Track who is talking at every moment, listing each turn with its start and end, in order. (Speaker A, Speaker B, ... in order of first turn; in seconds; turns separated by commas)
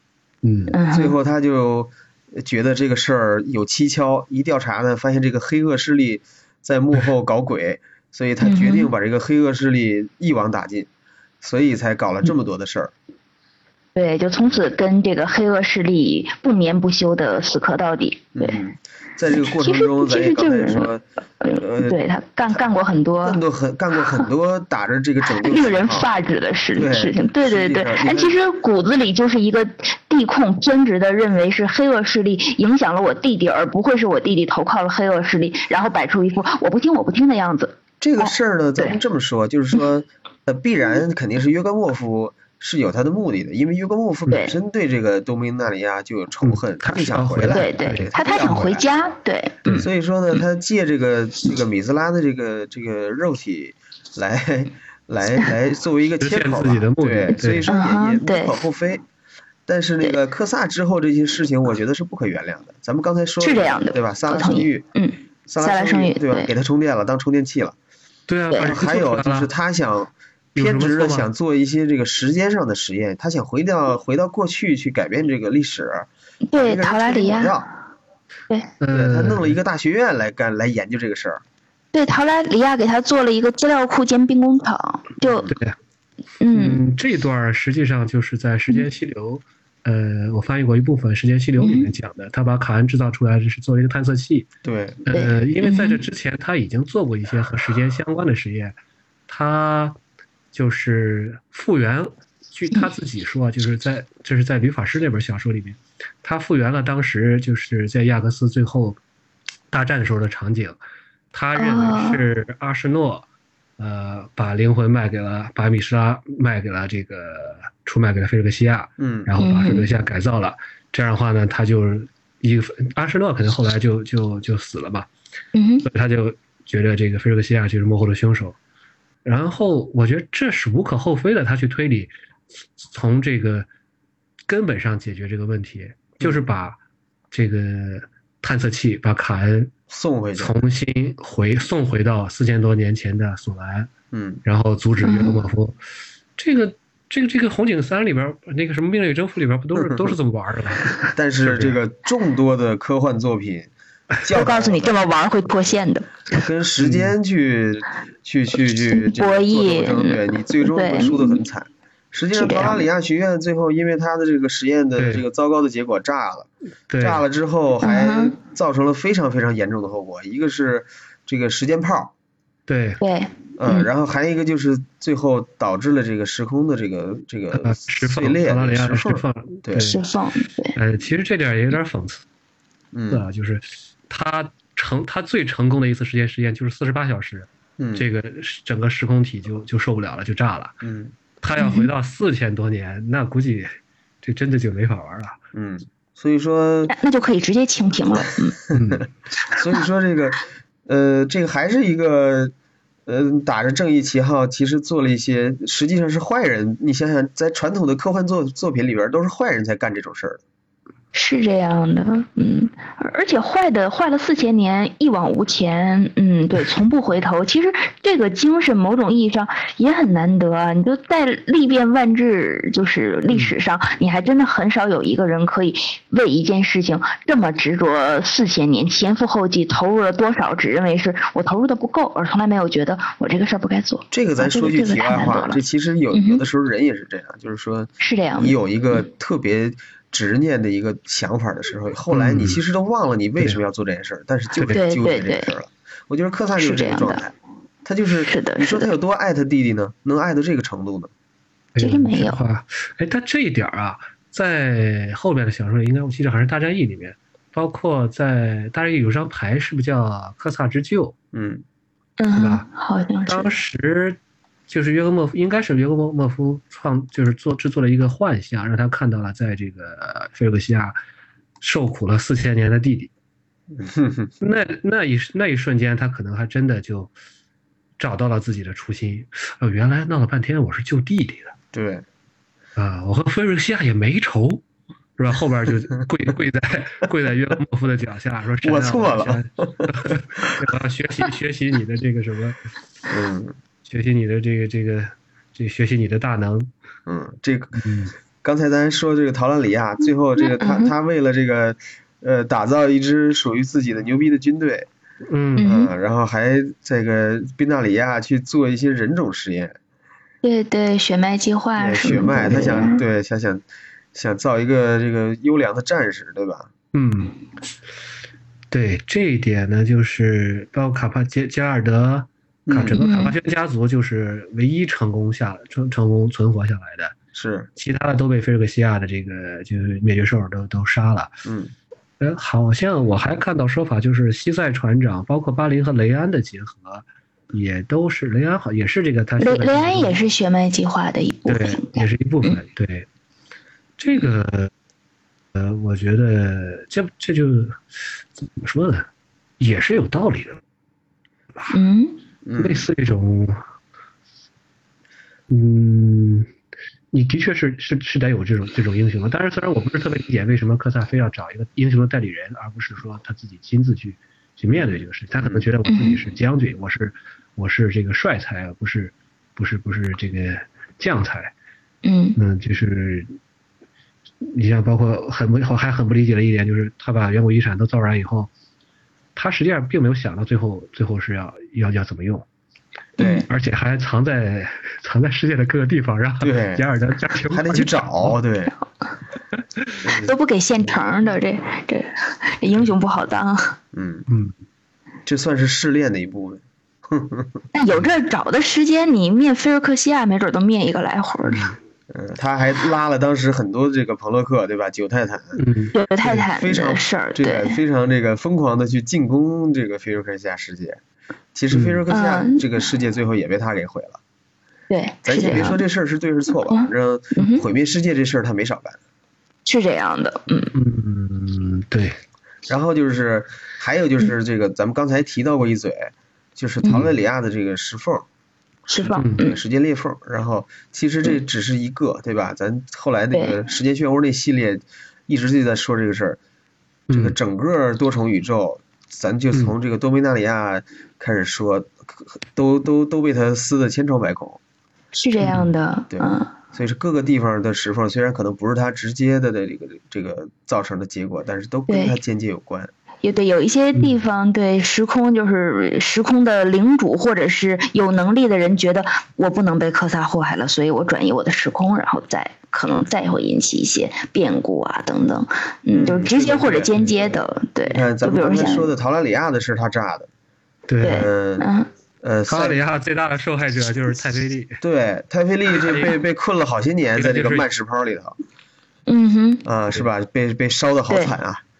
Speaker A: 0.4-0.7, Speaker B: 0.7-1.1, Speaker C: 0.9-10.9, Speaker B: 8.4-8.9, Speaker C: 11.4-12.9, Speaker B: 13.9-18.6, Speaker C: 18.4-22.0, Speaker B: 19.4-23.4, Speaker C: 23.2-26.1, Speaker B: 25.4-39.0, Speaker C: 26.8-28.4, Speaker C: 38.0-48.8, Speaker B: 44.3-44.5, Speaker A: 46.4-48.6, Speaker B: 47.5-49.7, Speaker C: 49.7-59.0, Speaker A: 56.2-57.7, Speaker B: 57.7-58.6, Speaker C: 59.7-64.8, Speaker B: 63.4-66.5, Speaker C: 65.5-67.8, Speaker A: 68.3-69.5, Speaker B: 68.5-68.8, Speaker C: 68.6-77.7, Speaker A: 70.5-71.3, Speaker B: 76.5-77.7, Speaker A: 78.8-79.6, Speaker C: 78.9-81.4, Speaker B: 81.9-85.5, Speaker C: 85.2-85.5, Speaker A: 85.5-85.8, Speaker B: 86.4-86.8, Speaker A: 86.5-94.5, Speaker B: 91.6-91.9, Speaker C: 94.6-95.0, Speaker A: 95.1-98.8, Speaker B: 95.1-96.0, Speaker A: 99.3-100.0, Speaker A: 100.5-109.0, Speaker A: 109.7-110.8, Speaker A: 111.3-113.2, Speaker B: 111.6-112.2, Speaker A: 113.8-125.1, Speaker C: 119.0-119.3, Speaker B: 119.4-119.9, Speaker B: 125.5-125.9, Speaker A: 125.8-128.6, Speaker A: 129.2-132.1, Speaker A: 132.8-133.7, Speaker A: 134.5-136.8, Speaker A: 137.3-139.7, Speaker C: 139.9-140.6, Speaker A: 140.4-143.9, Speaker C: 144.1-144.4, Speaker A: 144.4-145.8, Speaker B: 145.0-145.4, Speaker A: 146.4-150.9, Speaker C: 149.8-150.1, Speaker C: 151.1-155.0, Speaker A: 151.4-151.8, Speaker B: 154.3-156.1, Speaker C: 156.3-172.1, Speaker A: 156.8-157.1, Speaker B: 158.9-161.4, Speaker B: 162.3-162.9, Speaker A: 165.0-165.2, Speaker A: 166.9-167.2, Speaker B: 167.8-168.3, Speaker A: 172.7-173.0, Speaker B: 173.0-173.9, Speaker C: 173.6-179.9, Speaker A: 177.5-180.0, Speaker B: 179.8-180.8, Speaker A: 180.7-182.2, Speaker C: 182.9-183.3, Speaker A: 183.1-190.8, Speaker C: 187.8-188.1, Speaker C: 190.8-191.1, Speaker A: 191.4-195.4, Speaker B: 191.6-191.9, Speaker C: 195.5-196.9, Speaker B: 196.9-198.6, Speaker C: 198.7-202.5, Speaker A: 198.7-199.1, Speaker C: 203.1-210.4, Speaker B: 211.1-235.6, Speaker A: 223.3-223.6, Speaker C: 234.1-247.3, Speaker B: 236.1-236.4, Speaker B: 238.0-238.6, Speaker A: 242.1-242.6, Speaker A: 244.6-244.8, Speaker B: 244.7-245.5, Speaker B: 246.6-247.2, Speaker C: 247.8-251.1, Speaker B: 248.2-248.9, Speaker A: 251.8-261.1, Speaker B: 251.8-252.4, Speaker C: 261.3-261.6, Speaker B: 262.2-263.5, Speaker A: 262.4-262.7, Speaker A: 263.3-271.0, Speaker A: 271.6-273.1, Speaker C: 273.7-274.3, Speaker A: 274.4-277.1, Speaker A: 278.0-281.6, Speaker C: 281.7-282.1, Speaker A: 282.8-284.6, Speaker A: 285.2-292.6, Speaker C: 288.6-290.5, Speaker C: 293.1-293.6, Speaker A: 293.9-296.7, Speaker C: 297.1-297.8, Speaker A: 297.8-298.1, Speaker C: 298.4-304.9, Speaker B: 300.4-300.9, Speaker A: 305.3-305.8, Speaker B: 305.6-305.9, Speaker C: 305.6-309.8, Speaker B: 310.4-313.0, Speaker C: 311.8-316.7, Speaker A: 316.9-317.4, Speaker A: 318.7-327.1, Speaker C: 322.7-323.0, Speaker B: 322.9-323.4, Speaker C: 327.3-327.7, Speaker A: 327.8-331.3, Speaker C: 331.5-331.7, Speaker A: 332.2-340.2, Speaker B: 339.4-342.6, Speaker A: 341.5-343.1, Speaker A: 344.0-344.7, Speaker A: 345.6-347.8, Speaker A: 348.4-349.1, Speaker A: 349.6-350.6, Speaker B: 351.7-352.2, Speaker C: 352.4-352.9, Speaker A: 352.6-353.6, Speaker A: 355.5-356.5, Speaker A: 357.1-371.5, Speaker C: 364.7-365.7, Speaker B: 365.9-366.2, Speaker B: 372.0-372.4, Speaker A: 372.4-373.4, Speaker A: 374.4-378.5, Speaker A: 379.4-382.5, Speaker B: 383.2-383.5, Speaker C: 383.2-383.4, Speaker A: 383.5-388.4, Speaker C: 386.4-386.8, Speaker C: 387.5-388.8, Speaker C: 390.1-390.3, Speaker B: 390.1-393.8, Speaker C: 393.9-394.3, Speaker A: 394.3-394.5, Speaker C: 395.3-397.6, Speaker B: 397.7-401.7, Speaker A: 401.5-401.8, Speaker C: 402.1-405.6, Speaker A: 405.6-405.9, Speaker B: 405.9-407.8, Speaker C: 406.2-411.0, Speaker C: 411.5-414.2, Speaker A: 411.7-412.0, Speaker B: 412.1-412.7, Speaker B: 414.9-415.8, Speaker C: 415.2-419.0, Speaker B: 416.7-417.6, Speaker B: 419.7-420.7, Speaker A: 420.7-422.2, Speaker C: 422.7-428.3, Speaker B: 428.9-429.6, Speaker A: 429.1-429.4, Speaker C: 429.4-436.4, Speaker A: 437.1-437.4, Speaker C: 437.1-444.6, Speaker B: 445.1-446.5, Speaker A: 445.4-445.7, Speaker C: 446.1-452.9, Speaker B: 451.9-452.2, Speaker B: 453.2-468.9, Speaker C: 465.9-470.3, Speaker A: 470.9-471.3, Speaker B: 471.0-471.9, Speaker C: 471.0-471.7, Speaker C: 472.2-472.8, Speaker A: 472.5-474.8, Speaker C: 474.8-478.4, Speaker A: 475.7-476.2, Speaker A: 477.2-477.7, Speaker B: 479.1-479.6, Speaker C: 479.6-481.6